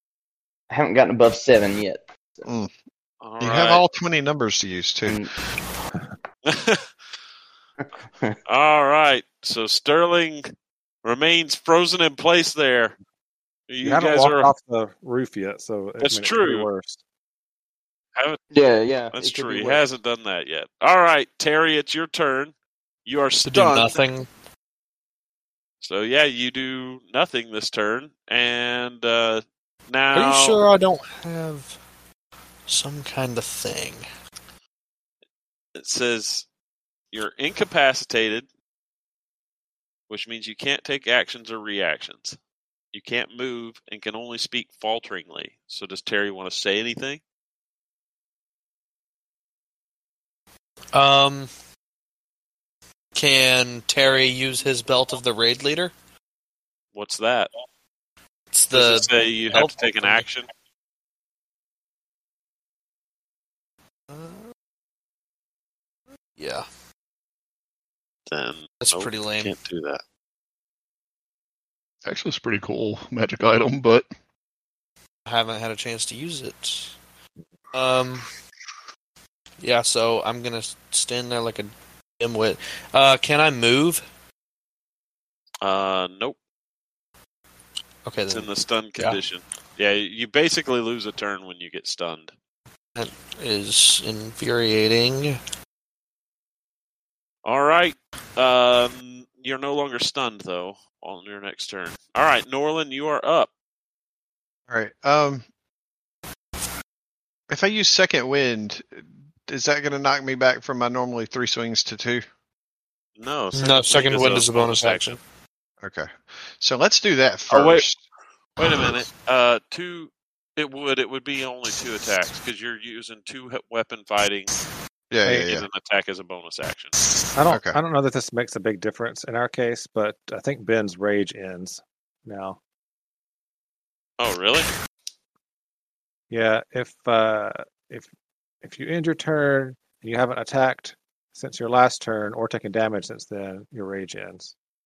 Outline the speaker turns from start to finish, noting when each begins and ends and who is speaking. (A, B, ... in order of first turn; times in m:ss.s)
0:00.7-0:02.4 A
0:02.4-0:02.7 B
0:03.2-0:03.8 C
0:03.4-0:05.2 B
0:05.0-0:05.3 A
0:06.4-0:06.9 C
0:07.8-0:08.4 A
0:08.4-0:10.5 C
0:11.0-0:13.0 C
0:13.7-0:14.5 C
0:13.8-0:17.0 D
0:16.0-0:16.7 C
0:18.5-0:19.8 A
0:19.1-0:22.5 C
0:23.0-0:24.0 C
0:23.4-0:24.3 E
0:25.8-0:30.6 C
0:30.1-0:31.8 E
0:32.7-0:34.0 E
0:35.7-0:36.4 C
0:37.1-0:38.5 C
0:40.1-0:42.4 C
0:42.9-0:47.2 C
0:50.9-0:51.5 E
0:53.1-0:55.9 E
0:56.9-0:57.5 C
0:58.5-1:00.3 E
0:58.7-1:00.5 C
1:04.1-1:04.4 E
1:06.4-1:06.6 E
1:08.3-1:10.0 C
1:08.8-1:09.5 E
1:12.0-1:14.1 F
1:15.2-1:17.0 E
1:17.7-1:18.3 E
1:19.6-1:24.0 E
1:25.6-1:26.4 C
1:28.0-1:29.2 E
1:28.3-1:32.3 C
1:33.0-1:35.4 E
1:37.4-1:43.5 C
1:44.7-1:45.4 B
1:47.5-1:52.2 B
1:53.2-1:55.2 C
1:53.5-1:55.2 E
1:55.8-1:58.0 B
1:57.5-1:57.9 C
1:58.6-2:04.5 C
2:05.1-2:05.6 B
2:05.3-2:07.0 C
2:07.3-2:12.6 D
2:07.5-2:07.8 B
2:14.2-2:14.7 C
2:16.3-2:18.1 D
2:18.6-2:24.5 D